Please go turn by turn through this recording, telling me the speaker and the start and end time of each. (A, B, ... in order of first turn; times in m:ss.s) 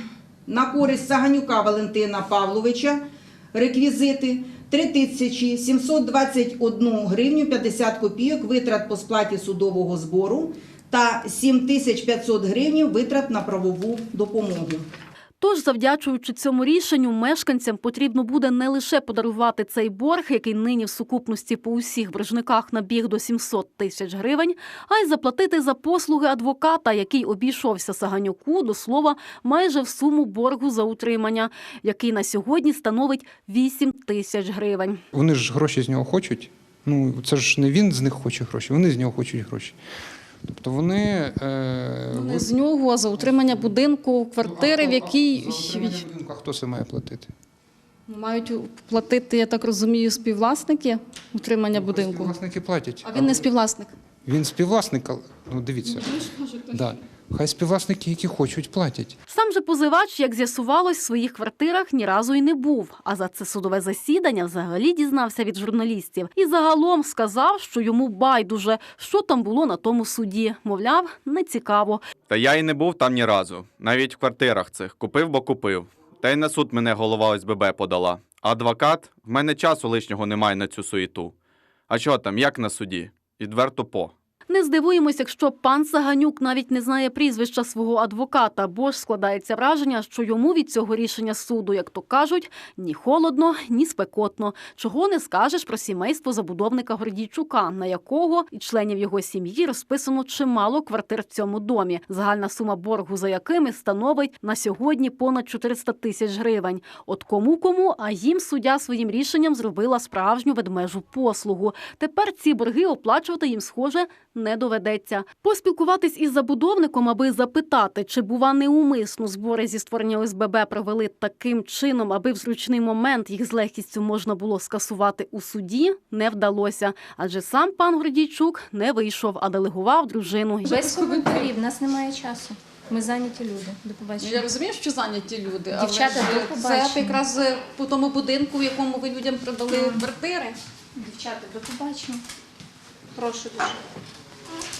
0:00.5-0:03.0 A
0:03.5-0:14.9 A
0:15.4-0:35.0 B
0:35.1-0:39.8 C
0:40.5-0:42.5 C
0:42.1-0:46.0 B
0:43.2-0:43.7 C
0:44.4-0:47.3 C
0:48.1-0:52.3 B
0:51.7-0:53.5 C
0:53.0-0:53.9 B
0:54.2-0:59.2 C
0:55.9-0:56.7 B
0:59.3-1:12.0 B
1:12.3-1:21.3 D
1:21.9-1:24.1 D
1:24.5-2:11.5 B
2:10.7-2:14.4 E
2:14.2-2:20.5 B
2:15.7-2:17.2 E
2:21.0-2:22.2 E